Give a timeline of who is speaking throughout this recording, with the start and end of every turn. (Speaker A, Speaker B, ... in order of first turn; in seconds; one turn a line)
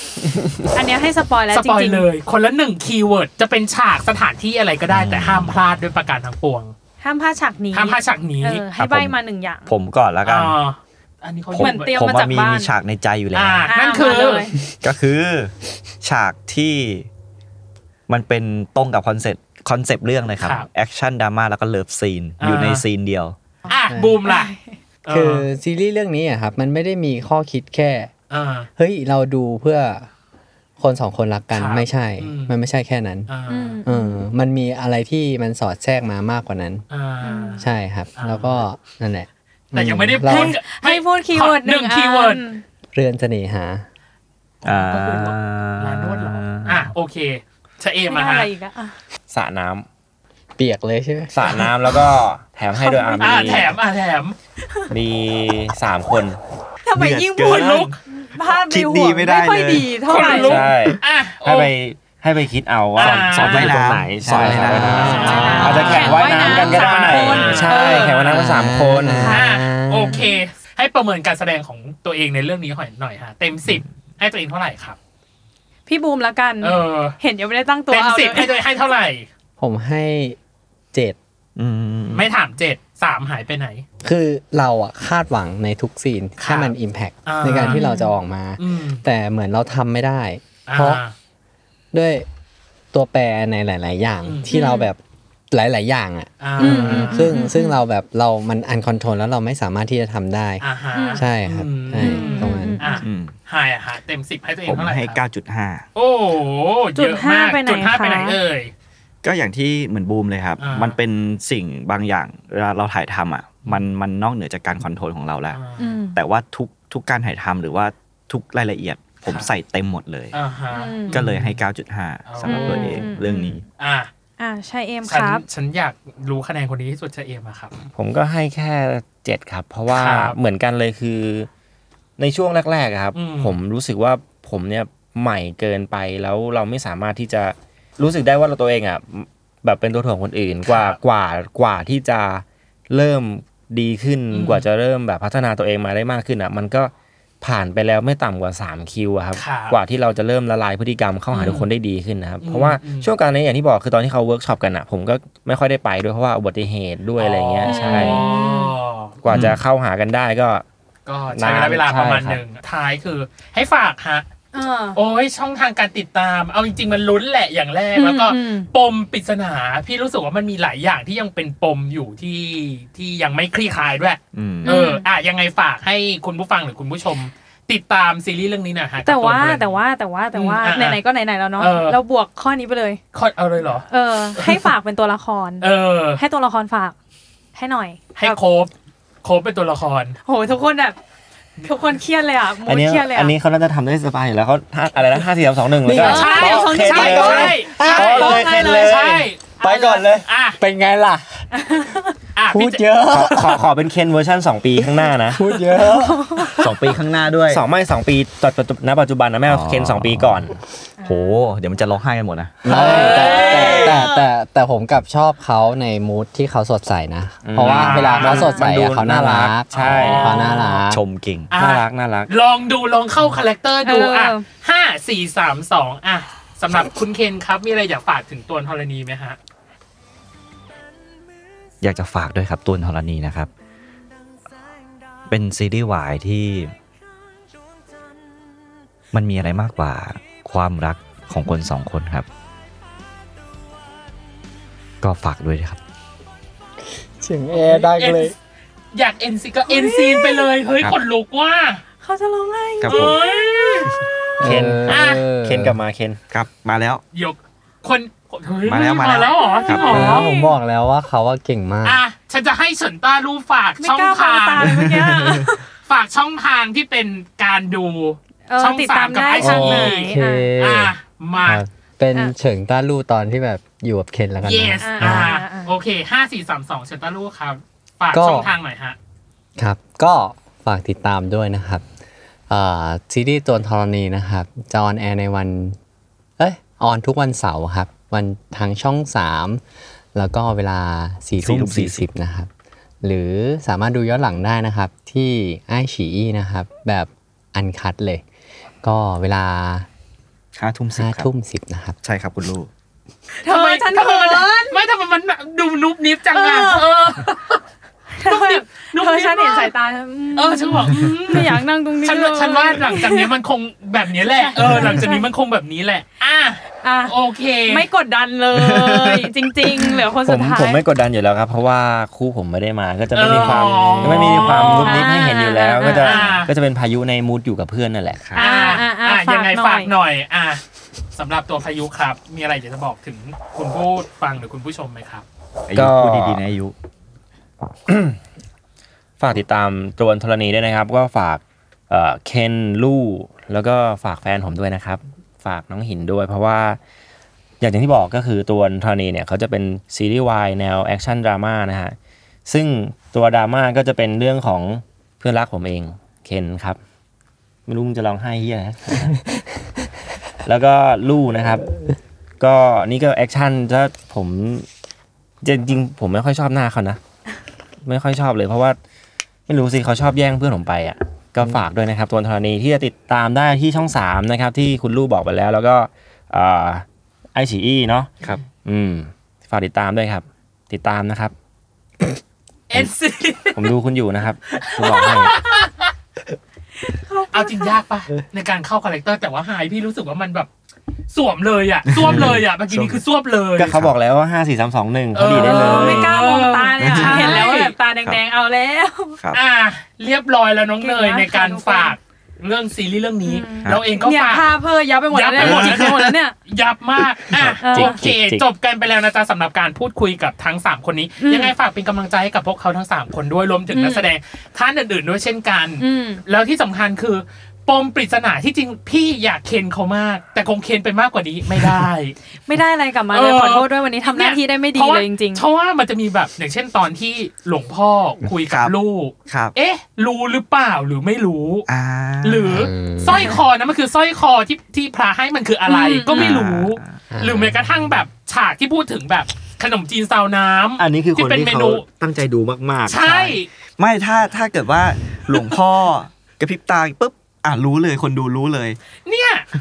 Speaker A: 0.8-2.1
Speaker B: 1.5-6.7
Speaker C: 4.9-5.5
Speaker A: 7.0-9.7
Speaker B: 7.7-8.6
Speaker C: 8.8-9.1
Speaker C: 9.7-10.6
Speaker B: 10.2-12.2
Speaker C: 11.5-13.7
Speaker A: 11.6-12.7
Speaker B: 13.3-14.5
Speaker A: 13.7-14.5
Speaker C: 14.8-17.1
Speaker C: 18.1-23.4
Speaker B: 20.4-20.7
Speaker B: 22.4-22.8
Speaker B: 23.7-24.5
Speaker A: 23.7-24.8
Speaker D: 23.9-24.2
Speaker B: 25.1-25.5
Speaker D: 25.1-28.1
Speaker B: 28.3-28.7
Speaker D: 28.8-30.1
Speaker D: 30.8-33.3
Speaker B: 31.5-32.5
Speaker B: 33.3-33.8
Speaker A: 33.5-34.2
Speaker D: 33.9-36.8
Speaker B: 36.9-38.6
Speaker A: 37.2-37.6
Speaker D: 37.6-40.6
Speaker B: 39.7-42.4
Speaker A: 40.2-42.6
Speaker D: 42.9-43.9
Speaker C: 44.6-46.9
Speaker B: 44.6-48.5
Speaker A: 48.1-49.0
Speaker E: 49.3-49.9
Speaker D: 50.6-51.6
Speaker E: 51.3-53.8
Speaker A: 52.8-53.7
Speaker B: 53.2-54.4
Speaker E: 54.9-56.4
Speaker A: 56.9-60.6
Speaker C: 57.0-57.9
Speaker B: 57.4-58.0
Speaker C: 58.5-61.0
Speaker B: 60.0-61.7
Speaker E: 60.2-69.4
Speaker B: 63.0-63.8
Speaker C: 63.0-65.6
Speaker D: 64.2-66.1
Speaker B: 65.0-68.5
Speaker A: 65.1-68.2
Speaker D: 67.1-67.6
Speaker D: 68.3-70.2
Speaker B: 69.2-75.0
Speaker A: 70.1-70.4
Speaker A: 75.9-78.6
Speaker B: 76.6-77.2
Speaker B: 77.9-79.3
Speaker D: 79.6-80.4
Speaker C: 81.6-82.3
Speaker B: 82.1-83.8
Speaker D: 84.0-91.0
Speaker B: 86.4-86.7
Speaker B: 87.2-87.9
Speaker A: 87.7-88.1
Speaker B: 88.6-89.0
Speaker B: 90.7-91.1
Speaker D: 91.9-92.3
Speaker D: 92.9-95.0
Speaker B: 94.2-94.5
Speaker A: 94.5-94.9
Speaker D: 95.5-100.6
Speaker B: 96.4-97.3
Speaker A: 96.6-97.8
Speaker B: 100.6-105.2
Speaker A: 100.9-101.2
Speaker D: 101.2-102.8
Speaker A: 102.0-103.0
Speaker C: 103.0-103.3
Speaker C: 104.7-105.9
Speaker B: 106.0-108.7
Speaker A: 107.0-108.4
Speaker C: 109.2-115.6
Speaker B: 110.6-111.0
Speaker B: 115.5-115.9
Speaker A: 115.8-116.2
Speaker C: 116.2-120.3
Speaker B: 119.3-119.5
Speaker B: 120.3-121.6
Speaker A: 120.7-121.2
Speaker C: 121.1-123.6
Speaker B: 122.3-124.1
Speaker A: 122.5-123.3
Speaker A: 124.4-125.4
Speaker B: 125.0-127.9
Speaker E: 128.0-131.5
Speaker B: 129.9-130.4
Speaker E: 132.2-158.2
Speaker B: 133.1-133.5
Speaker B: 140.7-141.0
Speaker B: 144.3-144.7
Speaker B: 149.3-149.8
Speaker B: 151.3-151.7
Speaker B: 152.4-153.1
Speaker B: 157.2-159.6
Speaker A: 157.6-158.8
Speaker E: 159.2-160.7
Speaker C: 159.3-159.6
Speaker B: 161.1-164.3
Speaker E: 161.3-162.4
Speaker A: 164.5-165.0
Speaker B: 164.9-179.8
Speaker A: 167.9-168.7
Speaker C: 174.3-174.7
Speaker A: 174.6-175.1
Speaker A: 179.0-183.0
Speaker B: 180.3-181.0
Speaker B: 181.6-182.0
Speaker B: 183.1-183.9
Speaker A: 183.9-186.9
Speaker B: 184.4-184.7
Speaker B: 185.6-186.2
Speaker A: 187.6-188.4
Speaker B: 188.2-188.7
Speaker B: 189.2-190.2
Speaker A: 190.3-191.0
Speaker A: 191.6-193.3
Speaker E: 192.7-199.3
Speaker D: 195.8-198.9
Speaker B: 196.0-200.6
Speaker A: 196.0-198.8
Speaker D: 199.6-201.5
Speaker A: 201.5-202.1
Speaker B: 202.4-203.0
Speaker D: 202.5-203.6
Speaker E: 203.1-205.4
Speaker D: 204.8-206.8
Speaker A: 205.8-206.6
Speaker C: 206.6-207.6
Speaker E: 207.5-210.6
Speaker C: 209.4-210.4
Speaker A: 211.0-211.4
Speaker C: 211.0-212.6
Speaker D: 212.6-221.0
Speaker B: 212.7-214.2
Speaker A: 212.8-214.2
Speaker E: 217.4-220.4
Speaker B: 217.6-218.6
Speaker A: 218.2-218.6
Speaker B: 219.7-220.8
Speaker C: 220.9-221.5
Speaker B: 221.5-229.4
Speaker E: 221.6-222.3
Speaker A: 223.8-224.5
Speaker C: 231.8-233.5
Speaker C: 235.3-236.7
Speaker C: 239.1-242.3
Speaker C: 245.0-245.8
Speaker D: 246.9-248.3
Speaker B: 247.5-248.3
Speaker B: 248.9-251.8
Speaker A: 249.7-250.5
Speaker A: 252.0-253.9
Speaker C: 252.8-253.2
Speaker B: 252.8-253.9
Speaker D: 254.4-255.8
Speaker E: 254.4-256.2
Speaker B: 254.9-255.2
Speaker C: 256.3-257.0
Speaker B: 257.1-260.3
Speaker C: 258.6-260.2
Speaker A: 259.4-260.5
Speaker D: 259.9-262.0
Speaker B: 261.9-264.8
Speaker A: 263.8-265.6
Speaker C: 264.6-265.5
Speaker B: 265.9-271.6
Speaker A: 268.5-270.5
Speaker D: 269.4-275.3
Speaker B: 274.4-279.0
Speaker A: 274.8-275.8
Speaker D: 278.1-278.5
Speaker D: 279.6-281.8
Speaker D: 282.5-285.8
Speaker D: 286.4-289.6
Speaker D: 290.1-292.5
Speaker C: 291.4-292.1
Speaker D: 293.0-298.2
Speaker D: 298.8-299.9
Speaker C: 300.6-301.3
Speaker D: 300.9-302.0
Speaker C: 302.0-302.7
Speaker A: 303.4-304.8
Speaker B: 303.5-307.6
Speaker A: 306.3-306.9
Speaker A: 308.2-313.4
Speaker B: 308.3-309.7
Speaker B: 310.4-317.9
Speaker A: 314.2-315.3
Speaker A: 316.8-320.9
Speaker C: 318.6-319.2
Speaker E: 320.2-328.3
Speaker B: 323.1-325.2
Speaker A: 324.0-326.4
Speaker B: 325.8-326.5
Speaker B: 328.4-330.6
Speaker A: 328.4-329.9
Speaker B: 331.1-335.2
Speaker C: 335.7-336.8
Speaker E: 335.8-336.4
Speaker E: 337.9-338.2
Speaker E: 339.2-346.8
Speaker E: 347.6-352.0
Speaker E: 352.5-356.8
Speaker E: 357.7-359.3
Speaker E: 360.4-361.7
Speaker E: 362.4-364.7
Speaker E: 365.4-367.0
Speaker E: 367.9-368.8
Speaker E: 369.5-378.1
Speaker E: 378.6-381.3
Speaker B: 382.7-383.7
Speaker E: 383.5-385.3
Speaker B: 384.5-385.9
Speaker A: 386.9-387.8
Speaker B: 387.3-390.5
Speaker B: 391.1-393.8
Speaker C: 391.9-393.0
Speaker E: 392.0-392.4
Speaker E: 393.6-396.1
Speaker B: 395.1-397.8
Speaker A: 395.3-399.2
Speaker C: 396.8-397.5
Speaker B: 399.3-404.5
Speaker A: 400.8-402.0
Speaker A: 403.2-406.4
Speaker B: 405.1-422.2
Speaker C: 405.4-405.7
Speaker E: 407.2-408.5
Speaker A: 407.6-408.0
Speaker A: 411.2-411.5
Speaker A: 413.7-414.1
Speaker A: 415.8-416.2
Speaker A: 422.3-425.5
Speaker B: 423.1-431.7
Speaker C: 428.5-428.7
Speaker C: 429.3-429.5
Speaker C: 431.7-432.7
Speaker B: 432.2-441.9
Speaker D: 432.5-433.3
Speaker A: 435.7-436.3
Speaker C: 436.1-436.9
Speaker D: 437.1-437.6
Speaker E: 440.8-443.4
Speaker B: 442.9-443.5
Speaker C: 443.8-448.8
Speaker B: 449.1-449.5